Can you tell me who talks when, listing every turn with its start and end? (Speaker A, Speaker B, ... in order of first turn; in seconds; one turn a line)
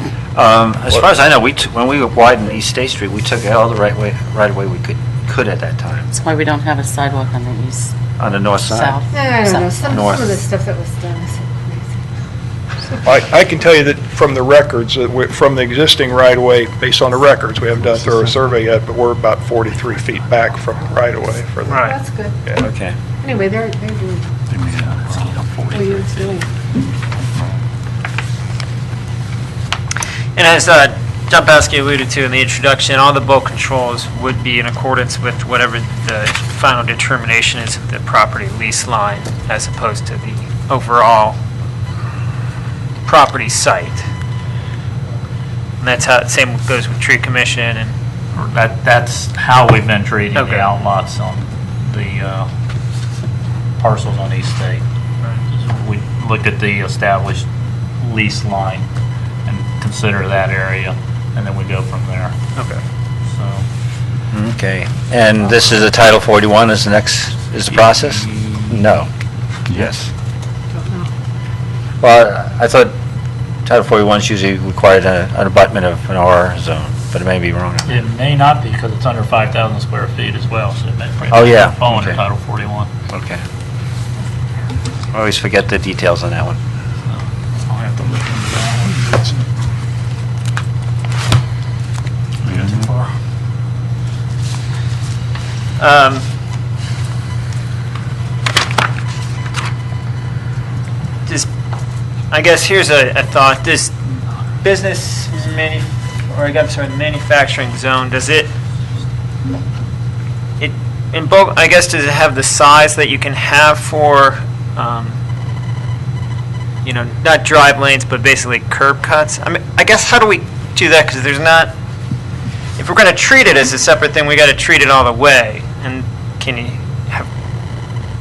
Speaker A: 0.3-6.1
Speaker B: 6.1-8.0
Speaker A: 8.2-9.0
Speaker B: 8.7-9.7
Speaker C: 9.1-12.0
Speaker A: 9.8-10.4
Speaker D: 13.0-21.8
Speaker E: 17.7-18.4
Speaker F: 21.6-21.9
Speaker C: 21.8-22.4
Speaker A: 22.6-22.9
Speaker C: 23.2-24.3
Speaker E: 24.5-25.6
Speaker G: 24.8-26.4
Speaker C: 25.7-26.5
Speaker F: 30.4-41.4
Speaker F: 43.0-44.0
Speaker F: 45.8-47.9
Speaker G: 48.4-52.5
Speaker F: 50.3-50.7
Speaker G: 53.8-54.8
Speaker G: 55.5-57.5
Speaker G: 58.0-58.9
Speaker G: 59.5-62.3
Speaker F: 62.5-62.8
Speaker G: 63.3-63.6
Speaker A: 64.3-69.1
Speaker G: 67.8-68.8
Speaker A: 69.7-70.1
Speaker C: 70.7-71.1
Speaker A: 72.0-72.9
Speaker A: 73.7-78.0
Speaker G: 77.8-82.9
Speaker A: 81.3-82.2
Speaker A: 83.1-83.4
Speaker A: 85.1-86.6
Speaker G: 87.1-89.4
Speaker E: 92.5-92.8
Speaker G: 92.5-93.1
Speaker F: 95.8-96.2
Speaker F: 102.3-108.5
Speaker F: 110.6-115.2
Speaker F: 116.8-121.7
Speaker F: 122.8-127.3